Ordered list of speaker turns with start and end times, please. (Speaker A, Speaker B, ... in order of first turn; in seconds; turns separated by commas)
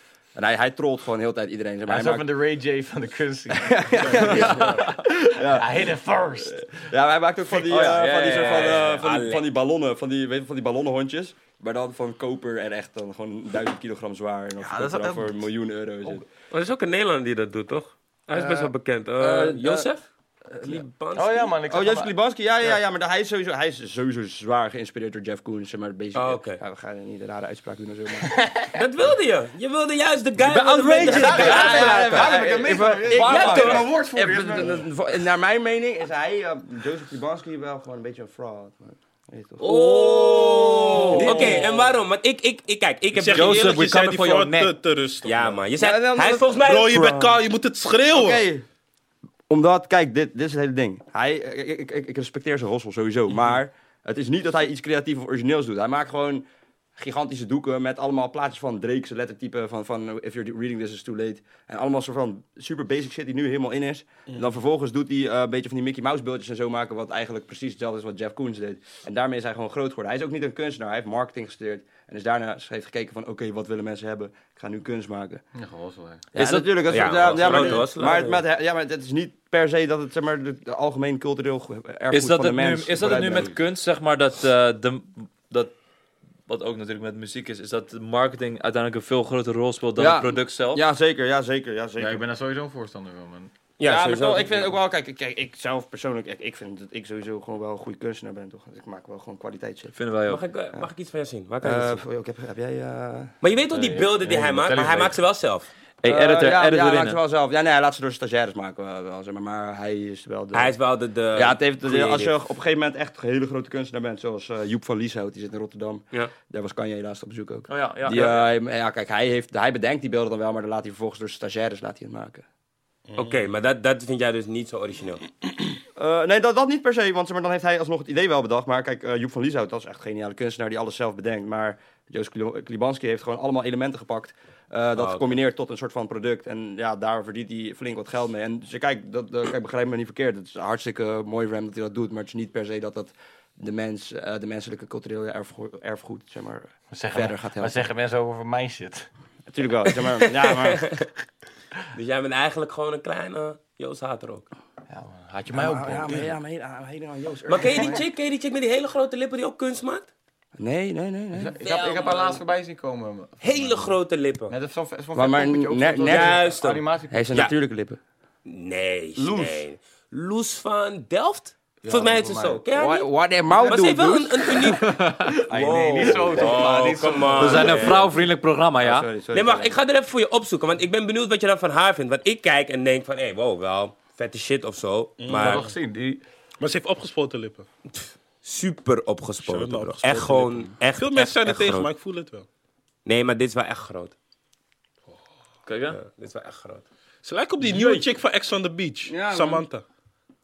Speaker A: 0.3-2.3, Speaker B: 1.8-6.8, Speaker A: 3.5-16.2, Speaker C: 4.0-4.8, Speaker D: 4.2-5.0, Speaker D: 7.6-9.0, Speaker E: 8.3-9.4, Speaker B: 14.6-15.4, Speaker E: 16.5-20.1, Speaker A: 19.2-19.8, Speaker E: 20.6-21.5, Speaker B: 21.1-22.1, Speaker A: 21.6-28.3, Speaker E: 26.1-26.6, Speaker B: 28.2-28.8, Speaker E: 28.7-32.4, Speaker A: 30.5-41.8, Speaker D: 30.5-31.9, Speaker B: 31.0-34.8, Speaker E: 33.1-33.9, Speaker E: 39.6-43.8, Speaker D: 39.6-41.6, Speaker B: 41.1-41.7, Speaker C: 43.1-45.7, Speaker D: 43.3-44.7, Speaker E: 45.2-47.3, Speaker A: 45.8-46.6, Speaker C: 46.5-48.5, Speaker A: 48.1-48.6, Speaker A: 49.5-56.4, Speaker A: 57.0-75.4, Speaker B: 75.5-76.3, Speaker D: 76.3-77.8, Speaker A: 76.3-83.5, Speaker E: 76.9-78.4, Speaker B: 77.3-77.8, Speaker D: 82.1-85.7, Speaker D: 86.5-90.8, Speaker A: 90.0-92.2, Speaker B: 92.0-93.5, Speaker E: 93.8-94.7, Speaker A: 93.8-99.9, Speaker D: 99.9-100.4, Speaker E: 100.3-102.0, Speaker A: 101.6-103.3, Speaker E: 103.4-105.7, Speaker B: 103.7-105.2, Speaker D: 106.0-107.2, Speaker A: 106.0-110.7, Speaker E: 110.5-112.3, Speaker A: 111.3-122.4, Speaker D: 117.7-118.5, Speaker C: 123.1-123.4, Speaker E: 123.2-125.2, Speaker A: 126.0-147.8, Speaker E: 134.9-135.4, Speaker B: 146.9-149.1, Speaker A: 149.5-151.0, Speaker E: 150.0-151.0, Speaker E: 151.9-154.5, Speaker B: 154.9-156.4, Speaker A: 155.5-158.0, Speaker E: 157.5-160.1, Speaker A: 160.6-161.6, Speaker B: 161.3-164.0, Speaker E: 161.6-162.4, Speaker E: 163.4-164.5, Speaker B: 164.5-167.4, Speaker A: 165.1-166.4, Speaker E: 166.1-167.5, Speaker A: 167.1-168.0, Speaker E: 168.4-174.8, Speaker B: 169.2-169.6, Speaker B: 171.8-172.6, Speaker A: 172.7-174.8, Speaker D: 174.8-175.4, Speaker A: 175.5-178.1, Speaker E: 175.5-178.1, Speaker B: 175.5-178.0, Speaker D: 177.4-179.1, Speaker A: 178.8-179.8, Speaker E: 179.3-185.7, Speaker C: 185.2-185.7, Speaker B: 185.3-186.2, Speaker C: 186.6-187.7, Speaker E: 187.9-191.9, Speaker C: 189.4-192.4, Speaker E: 193.0-194.1, Speaker D: 195.7-196.0, Speaker E: 195.9-196.8, Speaker C: 197.2-199.8, Speaker D: 197.6-198.0, Speaker A: 199.1-199.6